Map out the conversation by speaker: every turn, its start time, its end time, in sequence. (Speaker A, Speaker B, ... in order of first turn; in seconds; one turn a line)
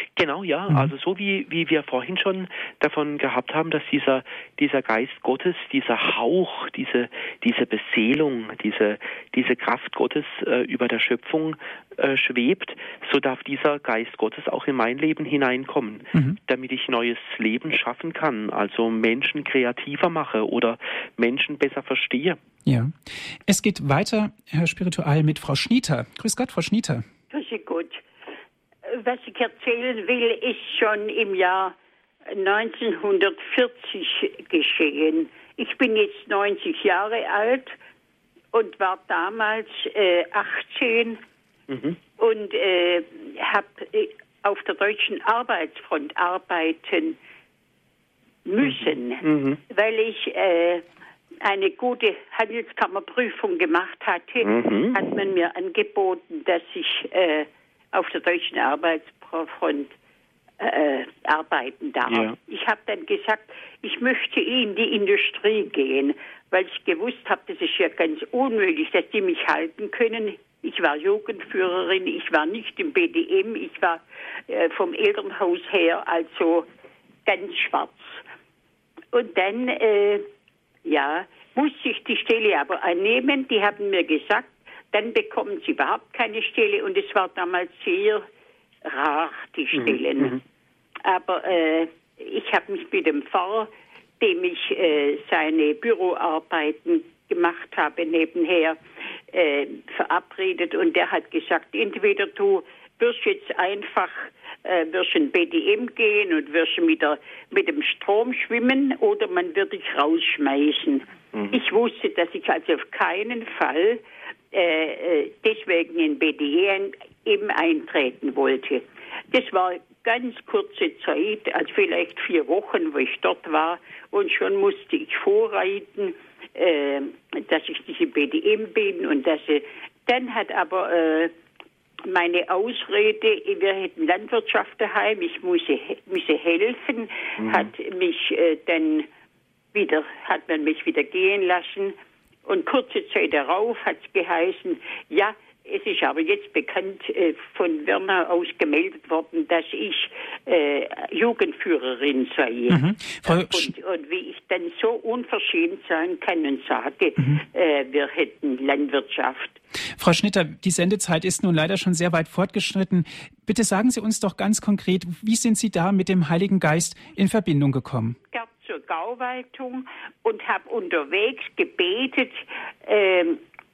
Speaker A: 0.1-22.4
Speaker B: 22.6-27.1
Speaker C: 27.3-28.0
Speaker C: 28.9-31.8
Speaker C: 32.3-37.7
Speaker C: 38.5-41.2
Speaker A: 41.7-42.0
Speaker C: 42.2-47.2
Speaker C: 48.4-50.8
Speaker A: 48.6-49.6
Speaker C: 51.4-59.9
Speaker A: 54.4-55.1
Speaker C: 60.6-76.7
Speaker A: 62.1-62.4
Speaker C: 77.2-78.2
Speaker C: 79.1-80.2
Speaker C: 80.8-88.2
Speaker C: 88.8-90.4
Speaker C: 91.0-98.8
Speaker C: 99.3-131.3
Speaker C: 132.1-139.1
Speaker A: 137.4-137.7
Speaker C: 139.7-159.6
Speaker B: 152.7-153.7
Speaker B: 157.2-157.4
Speaker B: 160.0-168.2
Speaker C: 168.3-173.4